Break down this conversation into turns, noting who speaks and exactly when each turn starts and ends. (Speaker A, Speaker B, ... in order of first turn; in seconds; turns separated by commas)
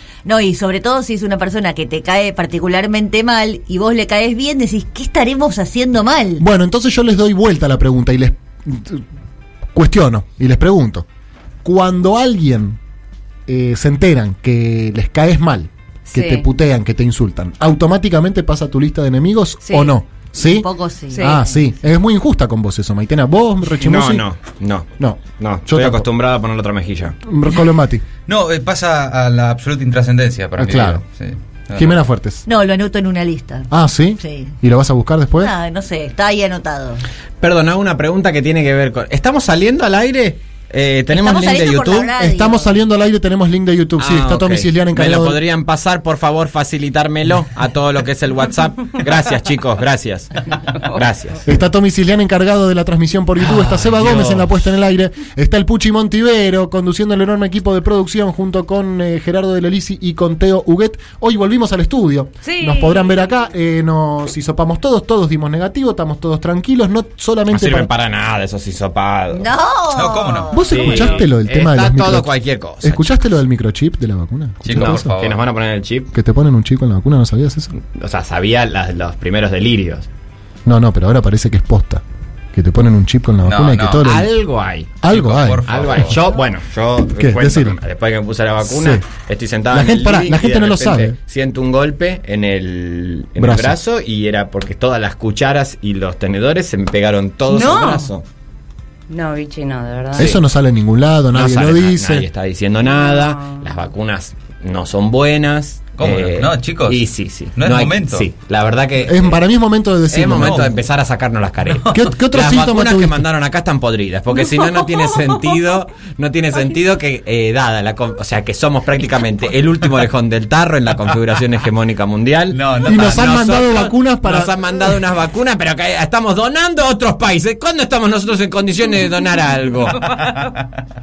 Speaker A: 0.2-6.4, Speaker B: 6.4-9.0, Speaker B: 9.7-11.1, Speaker B: 11.6-12.8, Speaker B: 13.5-24.2, Speaker C: 16.1-16.5, Speaker C: 19.6-19.9, Speaker A: 20.4-21.6, Speaker C: 21.1-21.4, Speaker D: 23.8-27.1, Speaker B: 25.0-26.1, Speaker B: 27.2-28.0, Speaker E: 28.2-32.0, Speaker B: 30.6-31.0, Speaker B: 31.7-32.4, Speaker A: 32.5-33.7, Speaker B: 33.7-35.5, Speaker A: 34.2-34.5, Speaker A: 35.4-37.0, Speaker D: 37.4-42.1, Speaker A: 41.1-42.7, Speaker B: 42.1-45.4, Speaker D: 44.0-51.4, Speaker B: 51.4-67.9, Speaker D: 53.4-54.5, Speaker C: 62.4-63.2, Speaker D: 67.5-69.5, Speaker A: 69.3-70.9, Speaker E: 69.9-70.7, Speaker B: 70.5-72.3, Speaker D: 70.7-73.2, Speaker B: 72.8-75.1, Speaker E: 74.6-75.4, Speaker D: 74.7-76.1, Speaker B: 76.1-77.7, Speaker D: 77.9-80.1, Speaker B: 80.7-84.3, Speaker E: 83.4-84.0, Speaker D: 84.0-85.0, Speaker B: 85.0-86.1, Speaker E: 85.0-86.2, Speaker D: 85.7-98.2, Speaker B: 87.2-87.8, Speaker B: 88.6-89.0, Speaker B: 89.7-91.2, Speaker B: 93.4-93.8, Speaker C: 97.5-98.1, Speaker C: 99.1-100.3, Speaker B: 100.2-102.2, Speaker D: 101.3-109.4, Speaker C: 102.8-103.6, Speaker E: 106.0-107.0, Speaker E: 107.5-108.3, Speaker B: 109.0-110.7, Speaker D: 110.1-130.1, Speaker E: 110.3-110.7, Speaker E: 111.7-112.0, Speaker B: 111.9-113.2, Speaker E: 122.5-123.4, Speaker B: 122.8-124.8, Speaker E: 130.0-130.5